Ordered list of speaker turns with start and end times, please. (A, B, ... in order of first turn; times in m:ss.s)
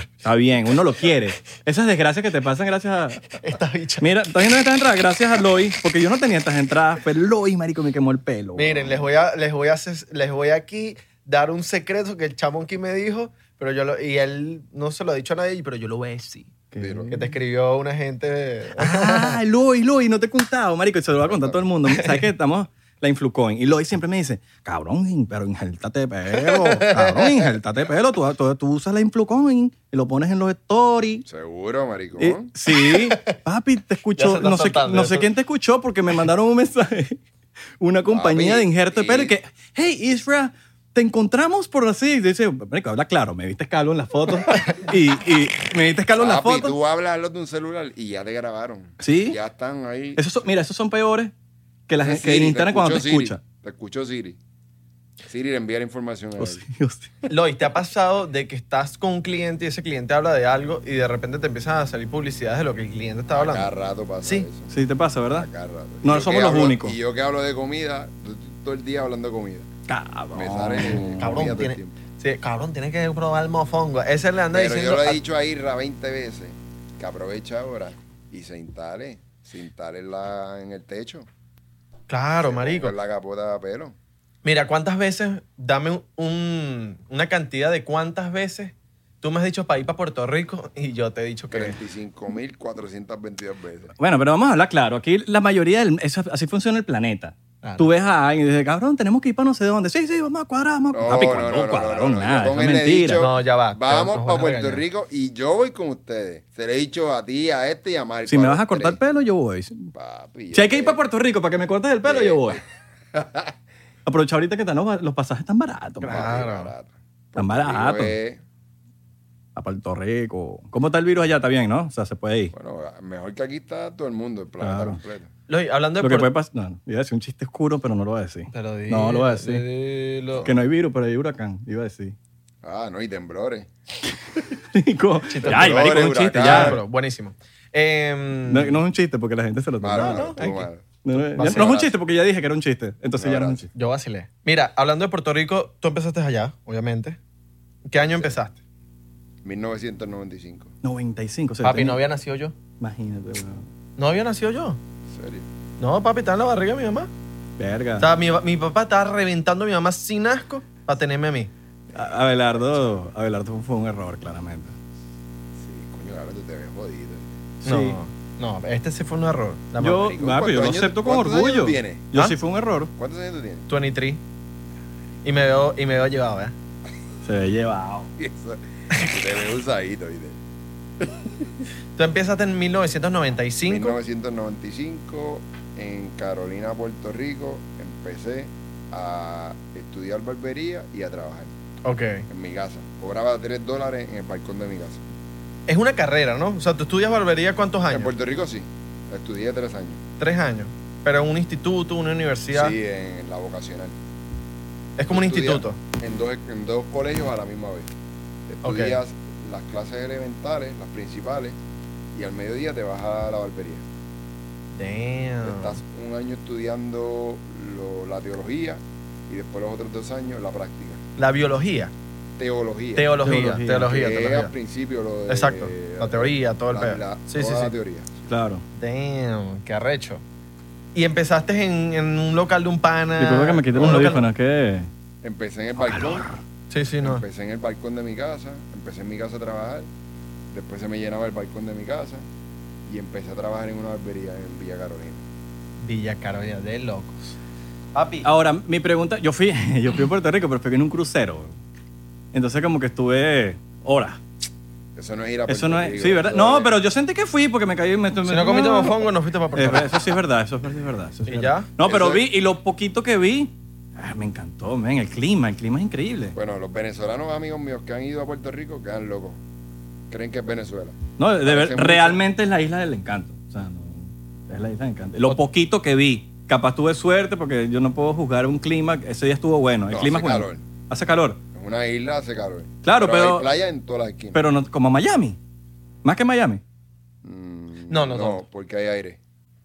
0:00.2-0:03.2 A
0:03.4-0:04.1 B
0:04.0-0:09.0 A
0:08.6-0:16.5 B
0:16.7-0:17.3 A
0:16.8-0:17.1 C
0:17.1-0:19.4 B
0:18.8-0:31.2 A
0:21.2-0:21.6 C
0:21.9-0:22.2 B
0:26.4-0:27.3 B
0:31.2-0:32.5 C
0:32.2-0:37.2 A
0:34.2-0:35.3 B
0:37.8-0:46.8 A
0:38.1-0:39.3 C
0:46.2-0:50.3 C
0:49.0-0:49.4 A
0:50.2-0:51.3 A
0:51.9-0:53.4 A
0:52.0-0:54.4 C
0:55.2-0:56.6 C
0:56.4-0:57.1 A
0:57.2-1:03.7 B
1:03.3-1:04.7 C
1:04.7-1:05.5 A
1:05.3-1:09.7 C
1:06.0-1:07.0 A
1:09.9-1:11.6 A
1:10.3-1:12.0 C
1:10.8-1:15.2 B
1:14.5-1:21.3 C
1:22.1-1:22.9 B
1:22.4-1:24.0 C
1:24.4-1:31.8 B
1:31.5-1:33.9 C
1:34.0-1:43.2 A
1:37.6-1:37.9 B
1:40.9-1:49.0 C
1:43.2-1:44.8 B
1:48.3-1:49.9 A
1:49.9-1:51.0 C
1:50.5-1:52.6 A
1:52.0-1:52.6 C
1:53.1-1:53.5 C
1:54.0-1:56.3 A
1:56.0-1:56.7 B
1:56.0-1:58.4 C
1:57.4-1:58.1 A
1:59.6-2:02.5 A
2:02.5-2:05.3 C
2:04.6-2:05.0 A
2:05.5-2:06.3 B
2:06.0-2:09.6 A
2:08.5-2:10.5 B
2:10.4-2:12.1 A
2:12.6-2:13.7 C
2:14.7-2:16.8 A
2:15.3-2:18.8 B
2:15.4-2:16.8 C
2:18.5-2:23.7 A
2:19.8-2:21.9 C
2:20.0-2:20.4 B
2:21.1-2:21.8 B
2:23.2-2:23.6 C
2:23.7-2:27.2 B
2:27.8-2:28.6 B
2:28.0-2:28.3 C
2:29.4-2:30.7 C
2:30.8-2:32.0 A
2:31.6-2:32.5 B
2:32.8-2:33.6 A
2:34.0-2:34.8 B
2:35.1-2:35.4 C
2:35.8-2:37.1 B
2:37.6-2:38.1 A
2:38.0-2:41.5 B
2:41.9-2:44.8 A
2:45.6-2:47.4 C
2:47.6-2:48.0 A
2:47.6-2:50.0 B
2:49.8-2:52.9 A
2:49.9-2:52.0 C
2:53.0-2:53.6 C
2:53.7-2:54.2 B
2:55.2-2:56.5 B
2:57.2-2:58.1 A
2:58.2-3:00.4 C
3:02.0-3:04.0 B
3:03.6-3:11.5 C
3:11.8-3:12.2 B
3:12.3-3:15.0 C
3:15.7-3:18.1 B
3:17.9-3:20.0 C
3:20.2-3:22.7 B
3:22.5-3:24.0 C
3:25.0-3:25.8 B
3:25.1-3:27.9 C
3:28.5-3:31.6 C
3:28.6-3:29.0 B
3:32.1-3:33.8 C
3:34.7-3:35.8 B
3:35.4-3:41.0 C
3:41.2-3:41.9 B
3:42.4-3:43.1 C
3:43.0-3:44.5 B
3:43.2-3:43.9 A
3:43.8-3:48.2 C
3:45.3-3:47.7 B
3:48.3-3:48.6 A
3:48.8-3:50.2 B
3:50.9-3:54.3 B
3:53.2-3:54.9 A
3:53.7-3:54.1 C
3:55.2-3:56.3 C
3:55.8-3:56.4 A
3:56.7-3:57.2 B
3:57.0-3:59.9 C
4:00.5-4:02.2 C
4:02.9-4:05.2 C
4:05.8-4:07.3 B
4:07.9-4:08.3 B
4:08.2-4:11.5 A
4:12.3-4:14.2 A
4:15.0-4:16.7 C
4:15.5-4:26.3 A
4:18.2-4:20.1 B
4:21.2-4:21.7 B
4:21.8-4:22.2 C
4:26.3-4:29.4 C
4:30.1-4:32.2 C
4:31.2-4:41.4 A
4:39.9-4:40.6 C
4:41.5-4:44.4 C
4:42.8-4:43.4 A
4:44.3-4:45.4 A
4:46.0-4:46.6 A
4:47.2-4:49.2 C
4:47.9-4:48.4 B